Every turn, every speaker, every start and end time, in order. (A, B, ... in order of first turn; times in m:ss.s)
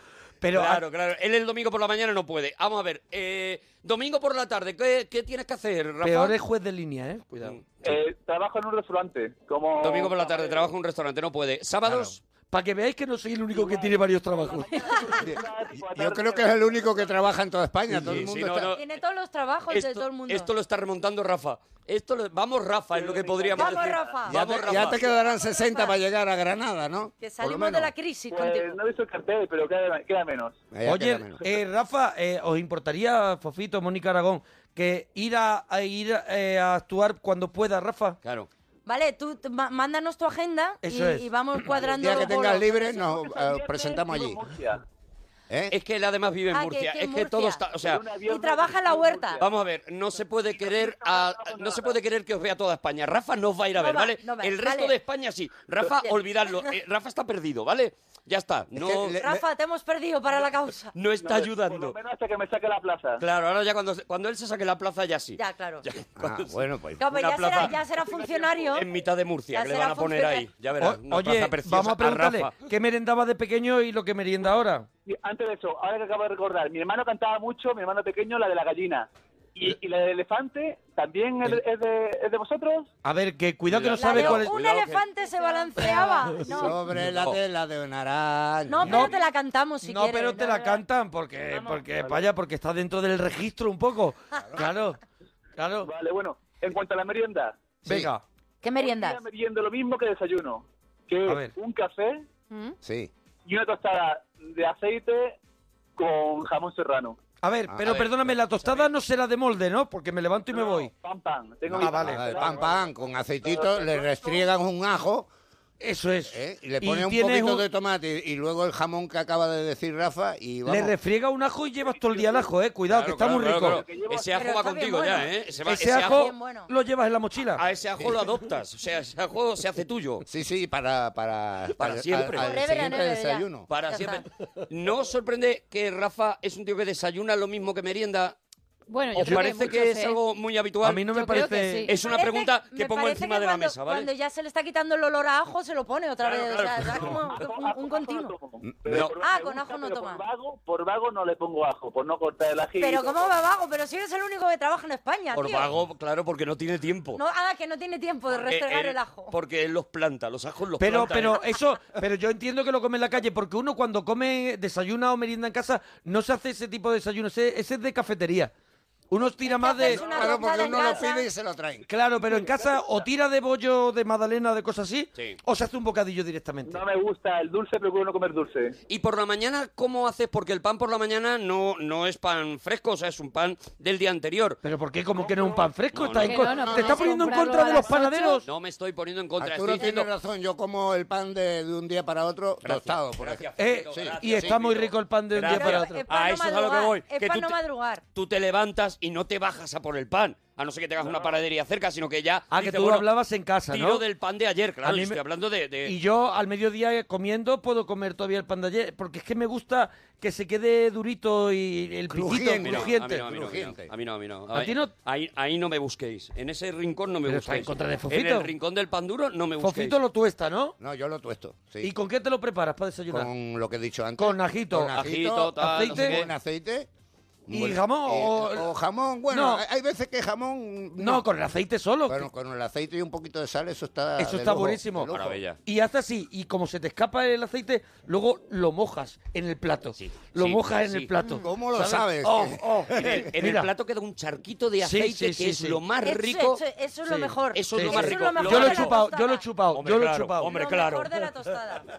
0:00.4-0:00.8 A
0:00.5-0:06.3 B
0:06.0-0:07.6 A
0:07.4-0:07.9 B
0:07.8-0:10.7 C
0:09.8-0:12.2 B
0:11.8-0:14.8 A
0:13.5-0:17.1 C
0:15.2-0:18.7 D
0:17.9-0:18.8 B
0:18.7-0:20.5 E
0:19.7-0:25.0 B
0:22.9-0:24.2 C
0:23.6-0:24.3 E
0:24.3-0:27.9 D
0:27.2-0:28.8 E
0:28.3-0:30.6 C
0:30.7-0:31.4 D
0:30.8-0:38.2 A
0:38.2-0:38.5 B
0:38.8-0:42.7 E
0:40.8-0:41.6 A
0:41.8-0:44.4 D
0:41.8-0:44.8 C
0:45.5-0:45.7 D
0:45.7-0:48.0 B
0:46.5-0:47.6 E
0:47.8-0:49.5 C
0:48.2-0:49.4 E
0:49.4-0:59.3 B
0:50.5-0:52.0 C
0:53.8-0:54.9 E
0:55.8-0:56.7 E
0:58.8-0:59.4 D
0:59.1-1:00.9 E
1:00.9-1:02.0 B
1:01.2-1:03.2 C
1:03.2-1:07.8 B
1:05.4-1:05.8 E
1:06.2-1:07.1 D
1:07.0-1:08.8 E
1:08.0-1:08.8 C
1:08.7-1:12.5 B
1:09.5-1:10.5 E
1:10.8-1:14.9 A
1:15.0-1:22.9 C
1:23.0-1:24.5 A
1:23.7-1:25.0 B
1:24.0-1:26.8 E
1:25.8-1:27.4 B
1:26.4-1:29.1 D
1:28.7-1:30.8 E
1:28.8-1:29.1 A
1:29.8-1:35.0 A
1:31.6-1:32.2 C
1:35.6-1:35.9 A
1:35.8-1:37.6 C
1:37.8-1:38.1 D
1:37.8-1:38.2 A
1:38.6-1:39.2 E
1:38.8-1:42.2 C
1:41.3-1:41.5 A
1:42.8-1:43.1 D
1:43.4-1:45.4 C
1:46.0-1:47.2 C
1:47.4-1:50.9 A
1:47.7-1:48.3 D
1:50.5-1:52.9 C
1:51.7-1:55.3 D
1:51.8-1:52.4 A
1:53.4-1:54.4 C
1:55.8-1:57.6 A
1:56.3-2:00.9 D
2:00.6-2:03.8 A
2:01.9-2:02.5 C
2:02.9-2:06.3 B
2:03.6-2:04.8 C
2:04.4-2:06.7 E
2:05.6-2:07.6 A
2:07.6-2:10.2 B
2:10.2-2:13.7 D
2:11.8-2:12.5 B
2:12.4-2:14.2 E
2:13.7-2:18.4 B
2:18.9-2:20.2 F
2:19.1-2:24.1 B
2:19.2-2:19.5 A
2:20.8-2:21.9 A
2:21.1-2:22.0 F
2:21.9-2:28.3 E
2:26.2-2:27.4 B
2:27.0-2:33.3 C
2:28.6-2:29.0 D
2:29.2-2:30.2 E
2:32.8-2:35.7 E
2:35.3-2:37.2 B
2:37.1-2:39.3 E
2:38.3-2:41.4 B
2:40.8-2:48.5 A
2:49.1-2:50.0 A
2:49.4-2:51.3 E
2:50.0-2:50.3 C
2:50.0-2:51.8 D
2:51.9-2:56.8 A
2:52.2-2:53.0 C
2:56.6-2:58.8 C
2:58.9-3:04.6 B
3:04.6-3:08.4 A
3:05.2-3:05.7 C
3:05.9-3:06.7 B
3:06.2-3:08.4 F
3:06.7-3:07.0 D
3:08.4-3:10.1 B
3:09.4-3:14.6 D
3:12.6-3:17.6 B
3:13.6-3:16.0 A
3:15.5-3:18.0 E
3:18.1-3:23.1 B
3:22.5-3:24.0 A
3:23.7-3:25.9 B
3:24.8-3:25.2 A
3:25.8-3:33.2 A
3:32.1-3:33.9 D
3:32.6-3:40.0 B
3:34.5-3:34.9 A
3:37.3-3:38.5 A
3:39.6-3:40.7 A
3:40.8-3:41.9 D
3:41.8-3:43.3 A
3:43.1-3:46.9 D
3:44.2-3:45.0 A
3:44.9-3:46.3 B
3:45.6-3:46.2 A
3:47.5-3:51.2 D
3:47.5-3:48.7 A
3:49.3-3:49.6 A
3:51.0-3:52.3 A
3:52.1-3:55.4 D
3:54.2-3:55.1 A
3:55.1-3:55.6 B
3:55.6-4:03.7 A
4:00.0-4:01.1 B
4:01.4-4:03.3 D
4:02.9-4:06.6 B
4:04.8-4:05.8 A
4:06.0-4:09.4 E
4:07.0-4:10.5 A
4:07.5-4:09.0 B
4:09.7-4:11.3 B
4:10.4-4:11.8 E